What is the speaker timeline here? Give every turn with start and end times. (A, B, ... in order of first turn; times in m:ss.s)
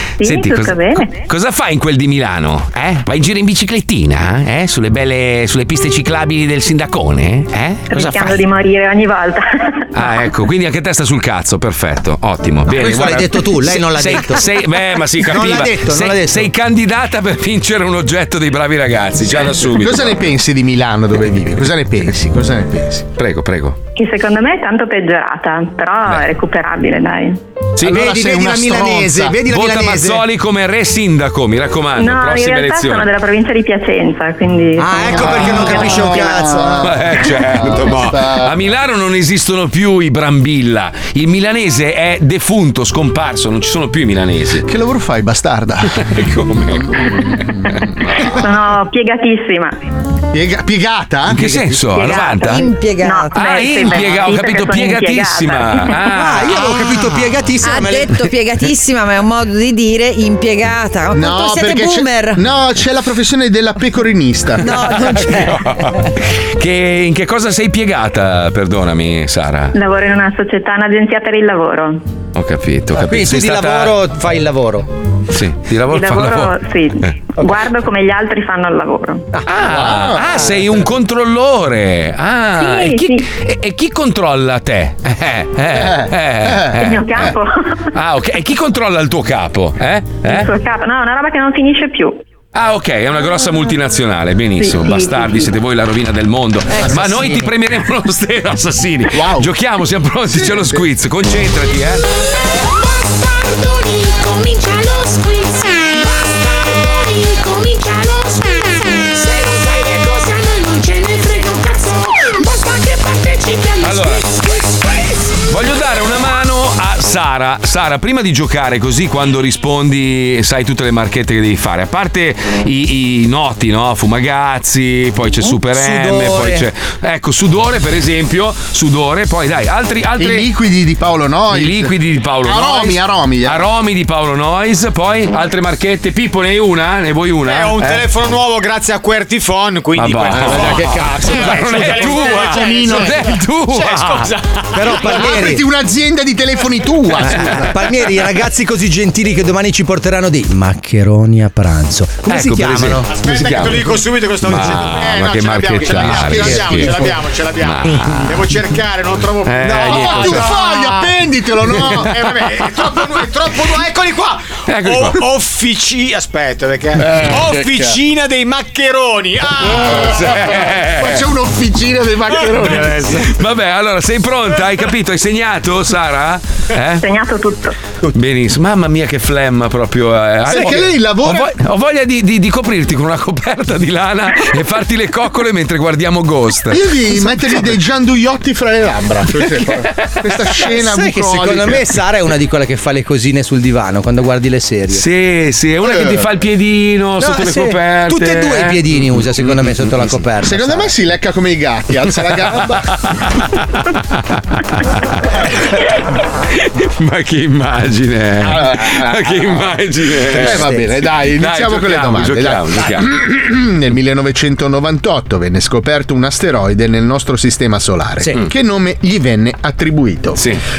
0:00.2-0:01.2 A
0:00.2-0:08.4 B
0:07.9-0:10.0 A
0:09.9-0:20.3 B
0:12.7-0:14.5 C
0:15.2-0:16.5 C
0:19.2-0:23.0 D
0:23.2-0:23.8 B
0:24.0-0:27.4 A
0:27.8-0:29.4 D
0:27.8-0:30.2 C
0:29.5-0:33.1 B
0:32.0-0:35.0 A
0:34.8-0:36.9 C
0:34.9-0:38.5 D
0:35.1-0:35.8 B
0:36.8-0:44.6 B
0:44.6-0:46.2 D
0:46.0-0:47.7 B
0:46.8-0:47.1 D
0:48.3-0:49.7 A
0:50.3-0:51.9 D
0:51.3-0:52.6 B
0:52.0-0:56.0 A
0:52.1-0:53.5 E
0:53.3-0:57.2 B
0:56.1-0:58.2 C
0:56.1-0:56.4 E
0:57.6-1:02.4 E
1:01.1-1:05.0 D
1:04.6-1:05.6 E
1:04.9-1:09.7 B
1:09.7-1:12.0 A
1:12.3-1:14.0 B
1:12.9-1:14.9 C
1:15.3-1:16.6 B
1:15.9-1:19.3 A
1:19.5-1:27.3 B
1:19.6-1:20.6 D
1:22.6-1:23.3 A
1:25.7-1:26.7 D
1:26.8-1:27.9 A
1:27.9-1:30.5 B
1:30.2-1:32.2 A
1:32.5-1:42.0 B
1:34.6-1:35.5 A
1:36.8-1:37.5 E
1:39.1-1:39.5 D
1:40.3-1:40.8 D
1:42.6-1:55.3 F
1:53.8-1:54.2 B
1:55.5-2:10.4 B
2:05.4-2:06.7 C
2:10.2-2:11.9 D
2:11.5-2:18.1 B
2:12.4-2:13.7 D
2:17.4-2:25.3 G
2:19.9-2:24.3 B
2:20.3-2:23.3 D
2:24.7-2:25.6 C
2:24.9-2:27.7 D
2:27.2-2:33.1 C
2:32.3-2:38.4 B
2:33.1-2:41.1 G
2:35.8-2:37.1 D
2:39.4-2:40.6 B
2:39.8-2:42.3 D
2:41.8-2:50.6 G
2:44.7-2:45.2 B
2:47.0-2:48.0 D
2:49.7-2:51.3 B
2:49.8-2:53.3 D
2:52.3-2:53.3 G
2:52.6-2:57.0 B
2:57.0-2:57.7 A
2:58.1-3:06.8 B
3:00.5-3:01.5 D
3:06.7-3:11.9 D
3:10.6-3:15.0 C
3:14.9-3:20.2 B
3:15.8-3:16.3 D
3:17.2-3:20.9 C
3:20.4-3:22.9 D
3:22.5-3:24.2 B
3:24.7-3:30.7 B
3:28.4-3:29.6 D
3:30.3-3:40.4 D
3:30.4-3:30.8 C
3:31.2-3:33.1 B